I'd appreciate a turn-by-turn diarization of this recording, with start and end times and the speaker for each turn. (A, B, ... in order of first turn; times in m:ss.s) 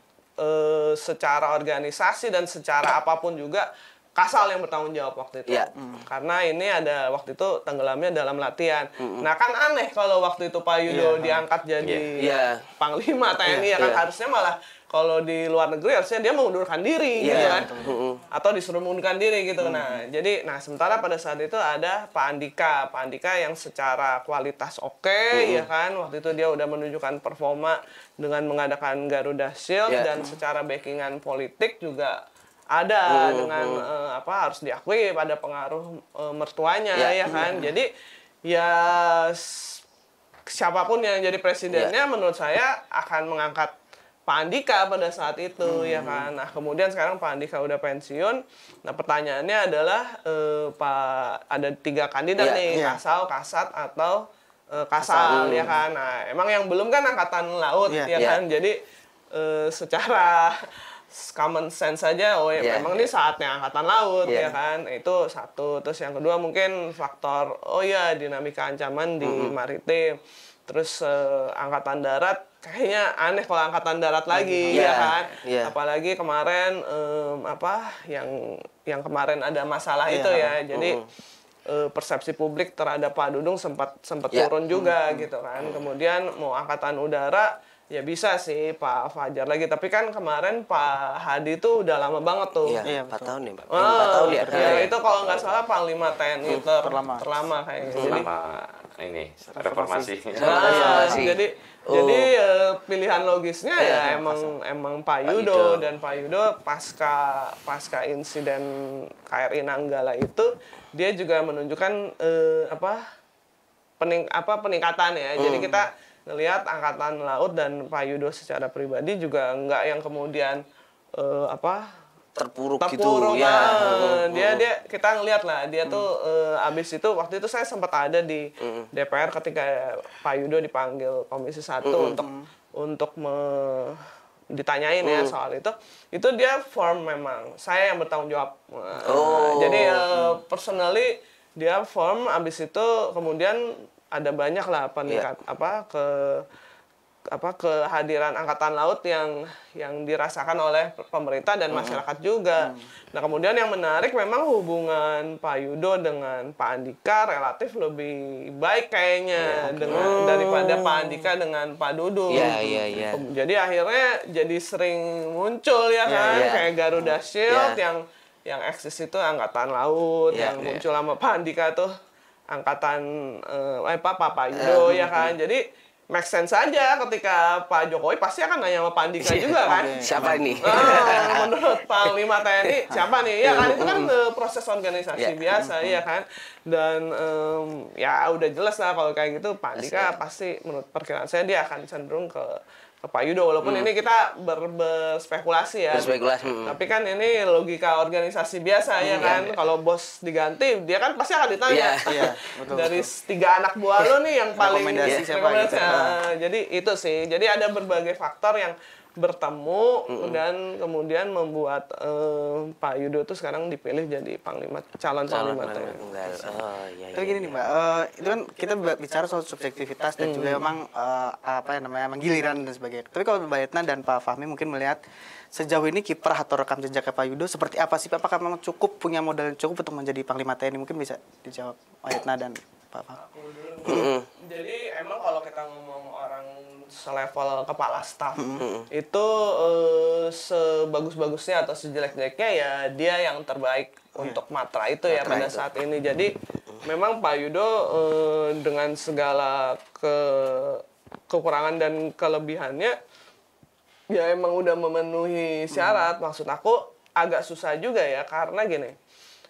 0:00.4-0:17.7 A
0:05.8-0:06.1 B
0:09.0-0:09.3 C
0:10.9-0:11.4 B
0:11.8-0:12.1 D
0:12.2-0:12.6 C
0:13.5-0:14.0 C
0:17.2-0:18.2 C
0:17.2-0:18.0 B
0:18.3-0:32.2 A
0:19.6-0:20.0 B
0:25.3-0:25.7 C
0:32.7-0:37.9 A
0:33.1-0:33.8 C
0:37.3-0:37.7 B
0:38.5-0:39.8 A
0:40.5-0:43.7 A
0:44.3-0:54.2 A
0:45.8-0:46.1 B
0:45.9-0:46.2 C
0:52.4-0:52.6 C
0:52.7-0:53.0 B
0:54.7-0:58.8 A
0:55.0-0:55.8 B
0:55.2-0:55.8 C
0:57.9-0:58.2 B
0:59.3-1:00.6 A
1:01.1-1:21.0 A
1:02.6-1:03.0 C
1:04.3-1:04.5 C
1:04.3-1:04.6 B
1:09.2-1:09.5 C
1:14.3-1:15.1 B
1:14.7-1:15.7 C
1:20.1-1:20.6 B
1:20.7-1:21.0 C
1:21.7-1:32.8 A
1:24.3-1:24.9 C
1:25.6-1:25.8 C
1:32.7-1:34.9 C
1:32.8-1:34.9 B
1:33.7-1:38.3 A
1:36.8-1:37.3 B
1:37.8-1:38.3 C
1:38.0-1:40.7 D
1:39.5-1:41.3 B
1:40.4-1:42.3 C
1:40.4-1:48.7 A
1:43.8-1:44.1 C
1:43.9-1:44.5 B
1:45.3-1:45.8 C
1:49.3-1:53.0 A
1:54.0-2:00.6 A
1:55.4-1:55.8 C
2:01.2-2:01.8 A
2:02.4-2:04.7 C
2:02.8-2:14.0 A
2:08.6-2:08.9 C
2:11.8-2:12.2 C
2:14.5-2:23.6 A
2:15.0-2:15.3 C
2:19.0-2:20.3 C
2:24.1-2:26.4 A
2:27.3-2:51.9 A
2:31.7-2:32.0 C
2:32.6-2:32.8 B
2:39.4-2:40.2 B
2:39.9-2:41.3 C
2:42.3-2:43.2 C
2:42.4-2:42.8 B
2:46.1-2:47.8 C
2:50.3-2:50.6 C
2:52.5-2:55.6 A
2:54.6-2:55.4 C
2:56.1-3:36.0 A
2:59.2-3:01.5 C
2:59.7-3:01.4 B
3:03.4-3:04.1 C
3:05.6-3:05.9 B
3:09.8-3:10.2 C
3:13.6-3:13.9 C
3:15.9-3:16.8 C
3:19.0-3:19.4 B
3:19.1-3:19.5 C
3:21.7-3:22.3 C
3:22.1-3:23.1 B
3:24.6-3:26.2 B
3:30.1-3:30.4 C
3:35.3-3:37.6 C
3:37.2-3:45.0 B
3:40.2-3:40.6 A
3:45.5-3:53.2 B
3:53.2-4:06.3 A
3:53.9-3:54.3 C
3:58.4-3:58.6 B
3:58.6-3:58.9 C
4:05.1-4:05.6 C
4:06.8-4:13.0 A
4:14.1-4:19.0 A
4:15.7-4:16.1 B